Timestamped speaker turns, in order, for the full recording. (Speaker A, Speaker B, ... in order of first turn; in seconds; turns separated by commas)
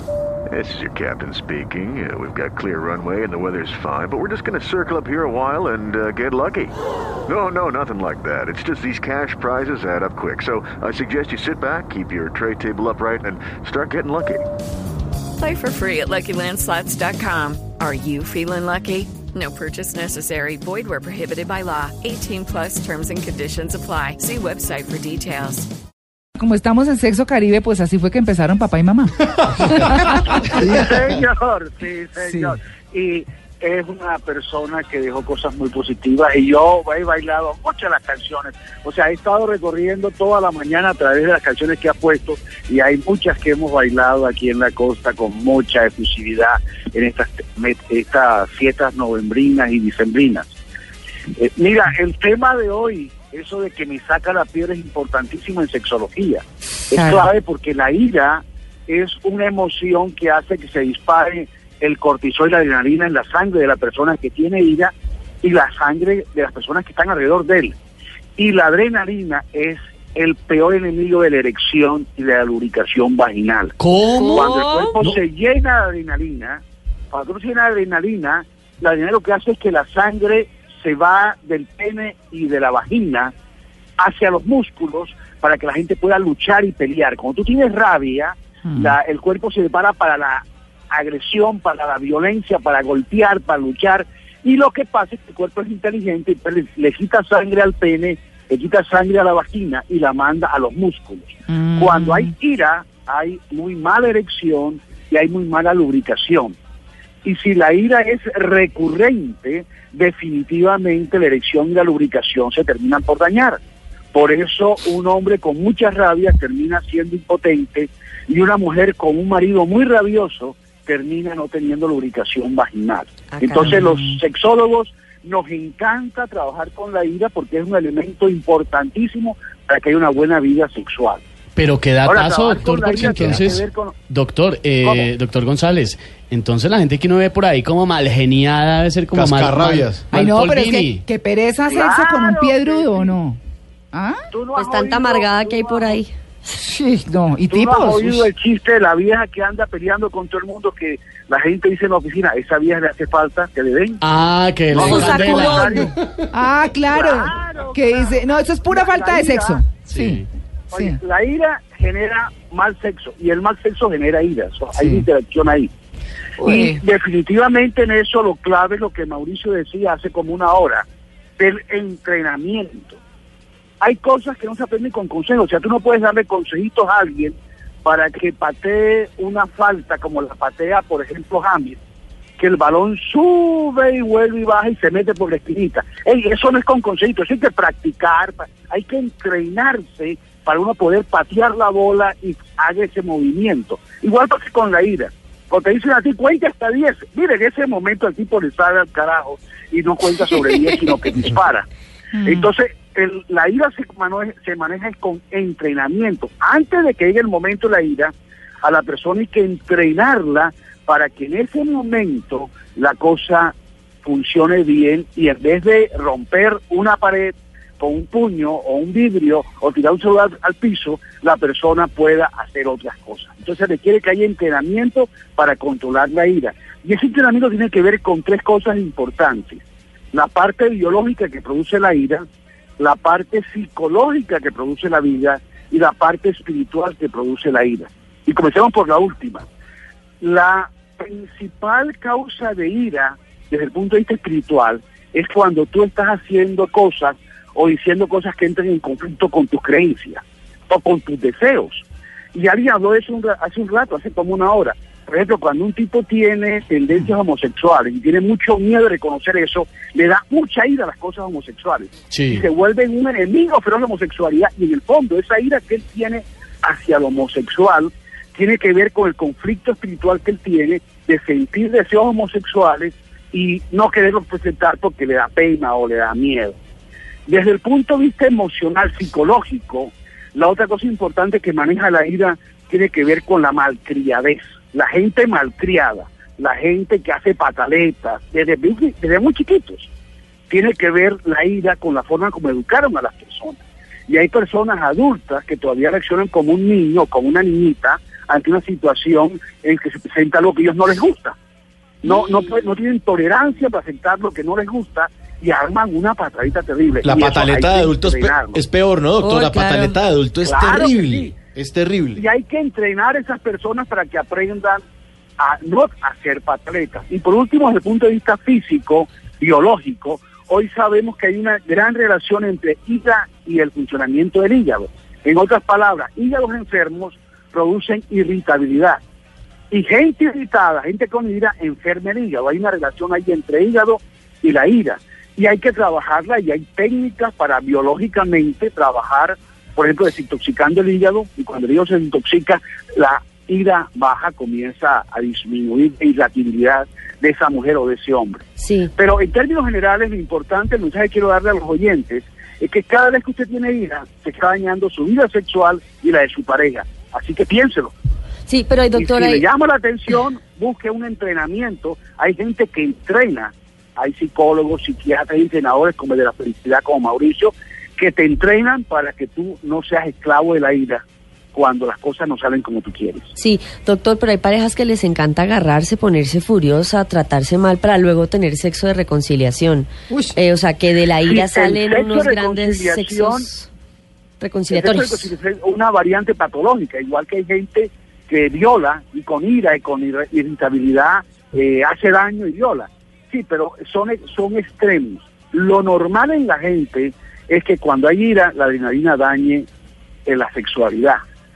Speaker A: 0.5-6.7, Speaker A: 7.3-14.5, Speaker B: 15.4-25.7, Speaker C: 26.4-30.8, Speaker D: 30.5-50.5, Speaker C: 32.2-32.5, Speaker D: 51.3-64.9, Speaker C: 56.9-57.2, Speaker D: 65.4-67.7, Speaker D: 68.4-76.6, Speaker E: 73.8-75.2, Speaker F: 74.1-74.9, Speaker D: 77.1-83.3, Speaker D: 84.0-106.5, Speaker C: 101.5-102.3, Speaker D: 107.2-113.6, Speaker D: 114.1-131.2, Speaker F: 123.3-123.7, Speaker C: 123.6-124.2, Speaker E: 131.6-141.0, Speaker D: 132.0-133.9, Speaker D: 134.8-135.1, Speaker G: 139.1-140.1, Speaker C: 140.1-143.4, Speaker D: 141.7-143.2, Speaker C: 143.9-144.2, Speaker D: 144.3-146.0, Speaker F: 144.5-146.1, Speaker C: 146.5-148.3, Speaker D: 147.5-154.0, Speaker E: 154.0-155.9, Speaker D: 154.7-155.9, Speaker F: 154.7-155.9, Speaker C: 156.3-161.0, Speaker D: 156.9-159.6, Speaker E: 159.9-160.2, Speaker D: 160.7-165.7, Speaker C: 164.7-165.1, Speaker D: 166.4-170.8, Speaker C: 166.4-166.8, Speaker D: 171.4-172.9, Speaker D: 173.8-181.8, Speaker D: 182.4-201.7, Speaker C: 202.1-202.5, Speaker D: 202.2-229.6, Speaker D: 230.1-232.2, Speaker D: 232.8-239.4, Speaker D: 240.2-276.6, Speaker E: 262.1-262.4, Speaker D: 277.3-289.9, Speaker D: 290.5-301.4, Speaker D: 302.0-308.6, Speaker G: 307.0-312.2, Speaker F: 309.2-309.9, Speaker D: 310.4-311.4, Speaker D: 312.1-314.8, Speaker D: 315.4-329.0, Speaker D: 329.7-357.9, Speaker F: 348.6-348.9, Speaker F: 358.5-359.4, Speaker D: 358.9-371.0, Speaker D: 371.5-373.3, Speaker F: 373.4-383.7, Speaker D: 381.1-383.5, Speaker F: 384.4-385.3, Speaker D: 384.7-399.6, Speaker D: 400.3-401.2